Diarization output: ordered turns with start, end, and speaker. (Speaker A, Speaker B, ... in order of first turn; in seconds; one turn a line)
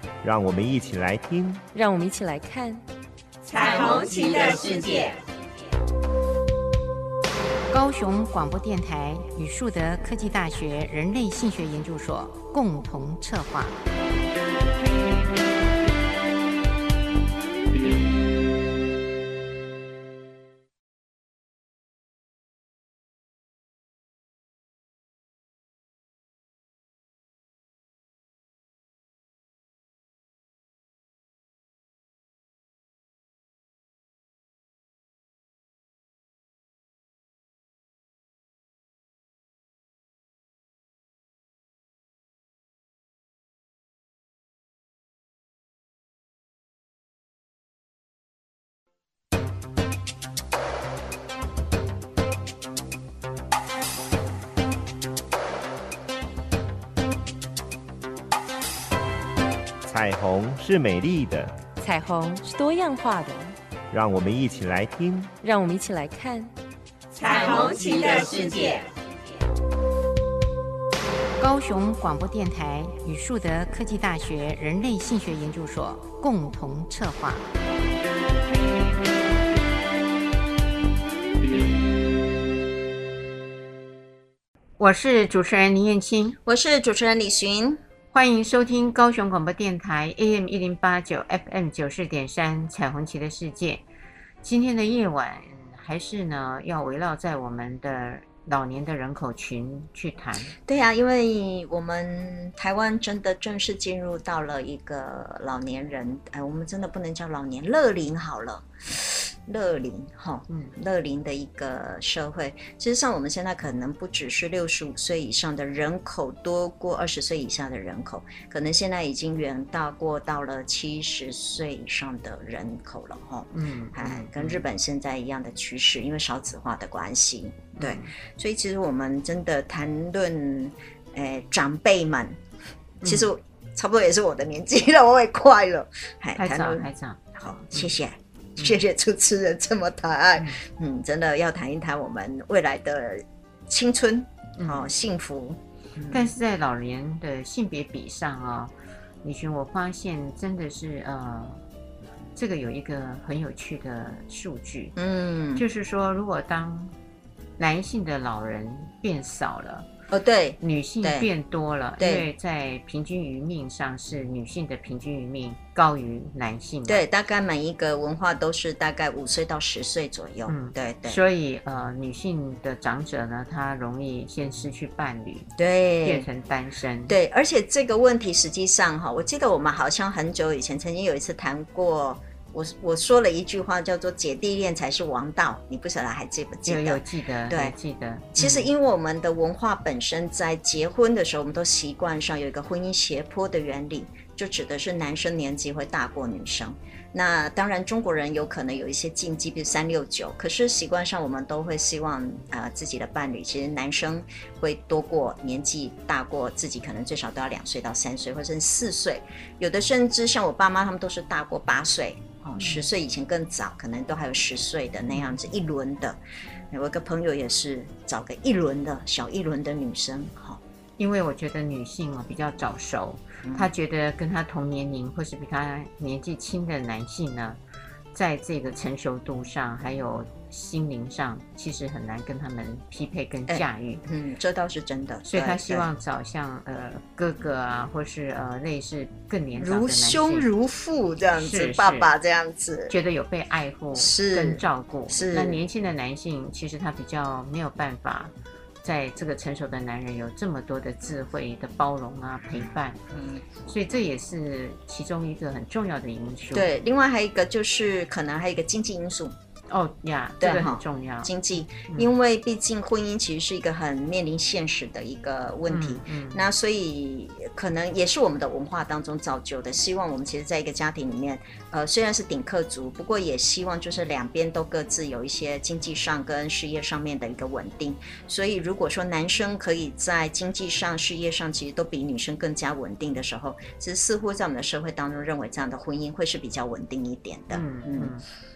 Speaker A: 0.2-1.6
Speaker B: 1.7-2.8
Speaker C: 3.4-5.2
Speaker D: 7.7-13.8
Speaker A: 59.9-61.5
Speaker B: 61.8-63.6
Speaker A: 63.9-65.3
Speaker B: 65.4-66.5
Speaker C: 67.1-68.9
Speaker D: 71.4-77.4
Speaker D: 84.8-86.4
Speaker E: 86.5-87.8
Speaker D: 88.1-93.8
Speaker D: 94.4-100.6
Speaker E: 100.7-132.4
Speaker D: 110.5-110.8
Speaker D: 123.5-124.7
Speaker D: 127.8-128.1
Speaker D: 133.0-133.3
Speaker E: 133.0-146.3
Speaker D: 136.4-137.2
Speaker D: 144.6-144.9
Speaker D: 146.1-148.7
Speaker D: 149.2-151.6
Speaker D: 152.3-154.9
Speaker E: 155.0-155.7
Speaker D: 155.6-156.9
Speaker D: 157.6-159.9
Speaker E: 160.1-161.3
Speaker D: 160.6-167.0
Speaker E: 162.0-162.3
Speaker E: 166.9-171.2
Speaker D: 170.5-175.5
Speaker E: 175.6-176.3
Speaker D: 176.0-177.2
Speaker E: 177.1-187.8
Speaker D: 186.7-188.7
Speaker E: 188.4-220.6
Speaker D: 212.6-212.8
Speaker D: 221.0-227.6
Speaker E: 223.4-223.7
Speaker D: 228.1-234.0
Speaker E: 233.5-235.9
Speaker D: 235.2-240.5
Speaker E: 239.6-243.0
Speaker D: 241.3-242.1
Speaker D: 242.9-248.3
Speaker E: 244.0-245.6
Speaker D: 248.8-253.0
Speaker E: 253.1-253.6
Speaker D: 253.7-256.7
Speaker E: 256.5-259.4
Speaker D: 259.7-262.1
Speaker E: 260.4-288.1
Speaker D: 265.7-266.4
Speaker D: 287.5-288.2